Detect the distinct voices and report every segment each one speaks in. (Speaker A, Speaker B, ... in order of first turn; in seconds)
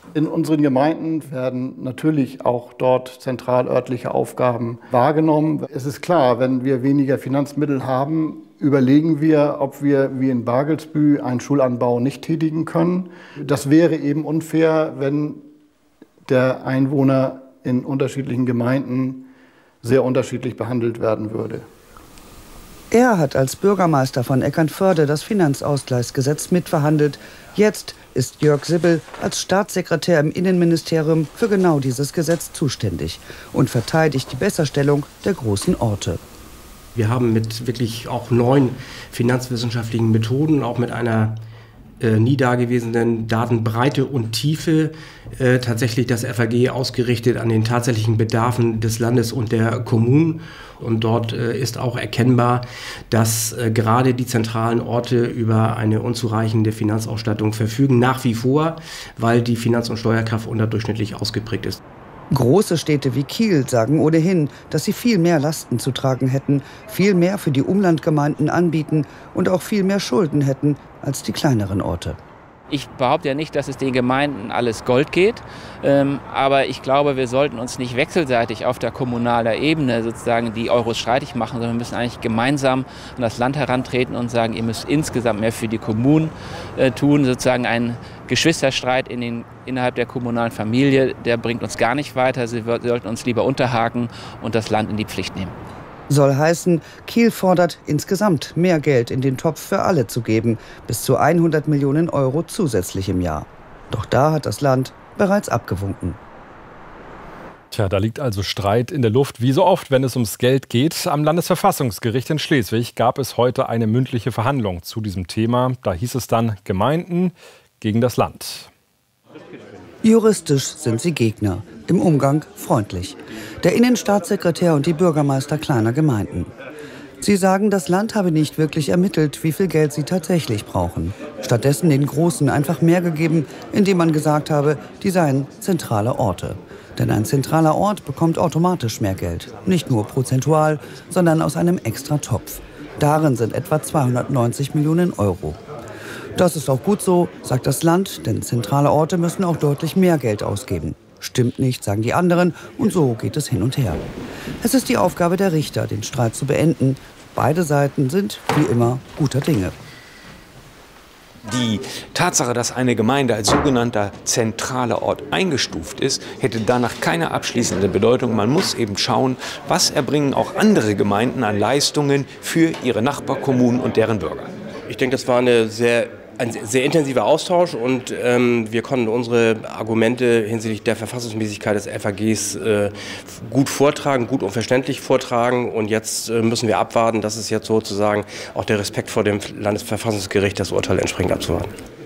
Speaker A: 0.2-15.4, 16.3-19.3, 19.8-21.7
Speaker B: 22.9-36.2, 62.3-72.2, 96.1-106.2, 120.0-126.5, 127.2-145.6, 146.4-154.0, 154.6-159.8
Speaker C: 37.0-41.4, 42.0-61.8, 174.9-191.7
Speaker D: 72.7-95.5
Speaker E: 107.7-118.7
Speaker F: 161.5-174.5